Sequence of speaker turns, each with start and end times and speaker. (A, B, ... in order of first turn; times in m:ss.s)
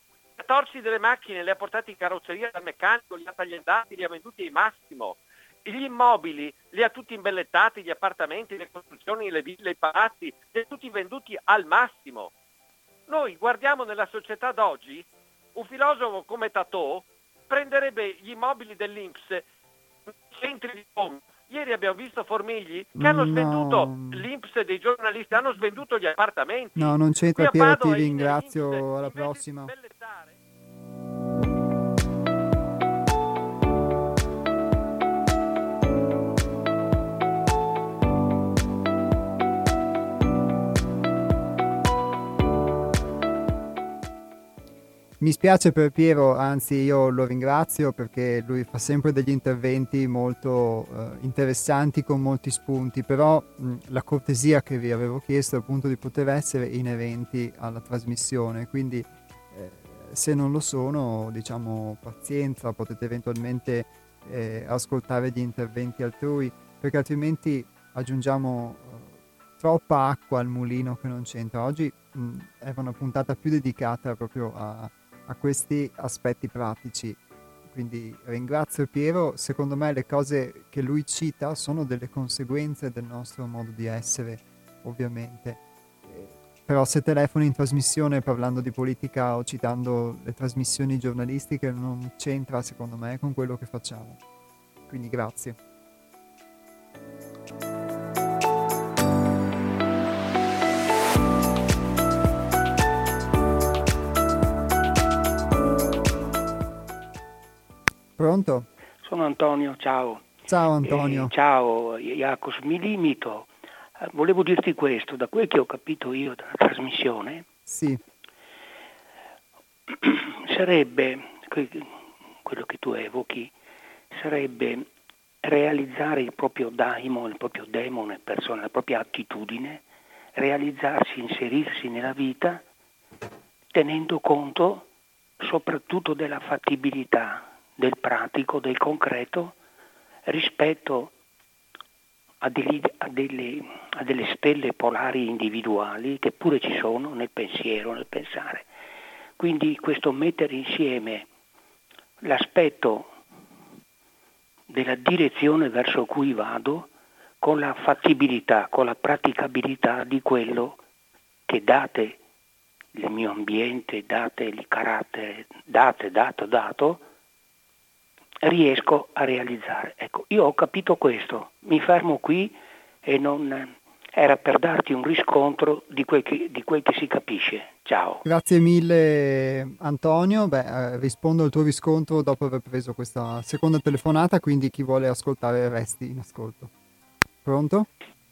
0:00.4-0:12.3 A
0:13.1-0:19.4 A
0:20.3-0:30.4 A
0:23.0-0:24.3 B
0:26.8-0:29.7 B
0:45.2-1:34.2 B
1:34.9-1:35.6 B
1:48.2-1:48.7 B
1:49.0-1:50.3 C
1:50.5-1:51.3 B
1:50.8-1:53.5 C
1:54.0-1:57.4 C
1:57.7-1:58.0 B
1:59.9-2:01.9 C
2:02.4-2:03.5 C
2:04.1-2:04.9 C
2:05.4-2:09.8 C
2:10.4-2:12.6 C
2:13.7-2:14.9 C
2:15.4-2:19.6 C
2:20.3-2:21.1 C
2:22.4-2:28.7 C
2:29.4-2:31.3 C
2:32.2-2:33.1 C
2:34.7-2:36.9 C
2:37.4-2:40.8 C
2:41.5-2:42.2 C
2:43.0-2:47.0 C
2:48.4-2:58.2 C
2:58.2-3:06.7 B
3:07.4-3:07.9 B